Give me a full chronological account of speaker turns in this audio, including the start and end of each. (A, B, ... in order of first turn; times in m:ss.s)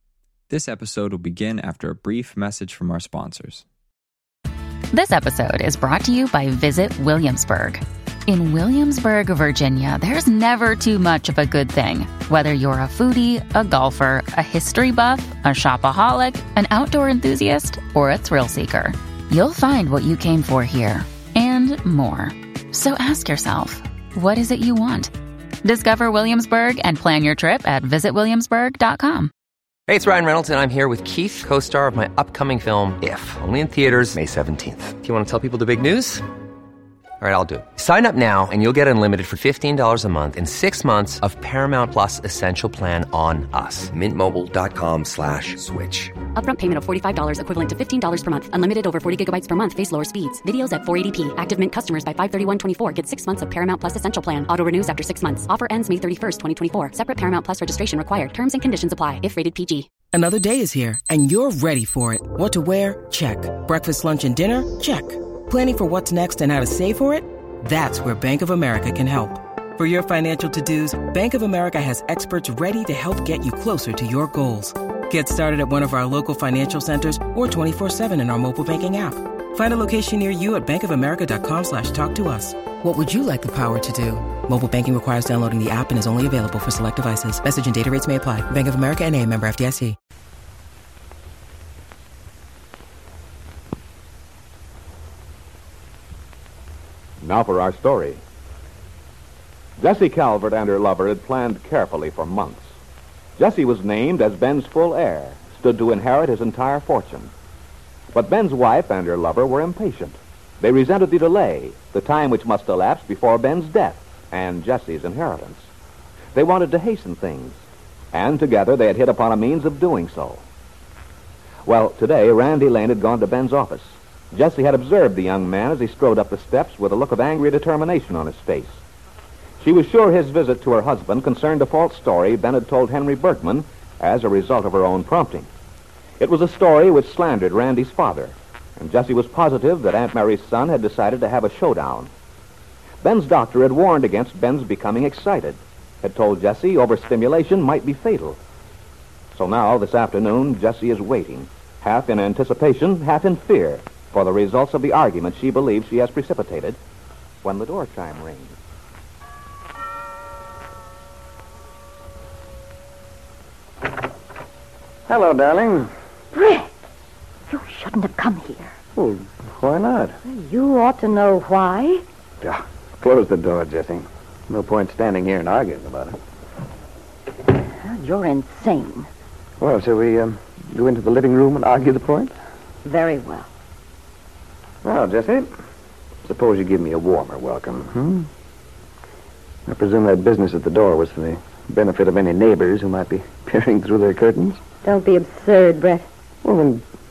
0:00.5-0:03.6 A
0:04.9-0:25.1 B
0:25.6-0:29.3 B
0:29.9-0:36.2 C
0:37.2-0:46.2 C
0:46.4-0:59.9 D
1:00.1-1:30.0 E
1:37.2-1:38.2 F
1:39.8-1:42.7 F
1:43.4-1:47.3 F
1:48.1-1:55.7 F
1:56.4-1:57.6 F
1:58.1-2:00.4 F
2:01.7-2:08.8 F
2:09.6-2:15.5 F
2:16.2-2:22.1 F
2:23.0-2:28.4 F
2:29.4-2:36.8 F
2:37.4-2:38.6 F
2:45.1-2:45.9 G
2:46.3-2:46.7 H
2:47.5-2:48.8 H
2:49.0-2:50.2 G
2:50.2-2:52.0 H
2:52.4-2:56.2 G
2:57.6-2:59.1 H
2:59.6-3:02.3 G
3:02.8-3:03.5 H
3:04.8-3:05.5 G
3:06.2-3:08.3 G
3:09.7-3:14.6 G
3:14.8-3:16.1 H
3:16.4-3:16.8 G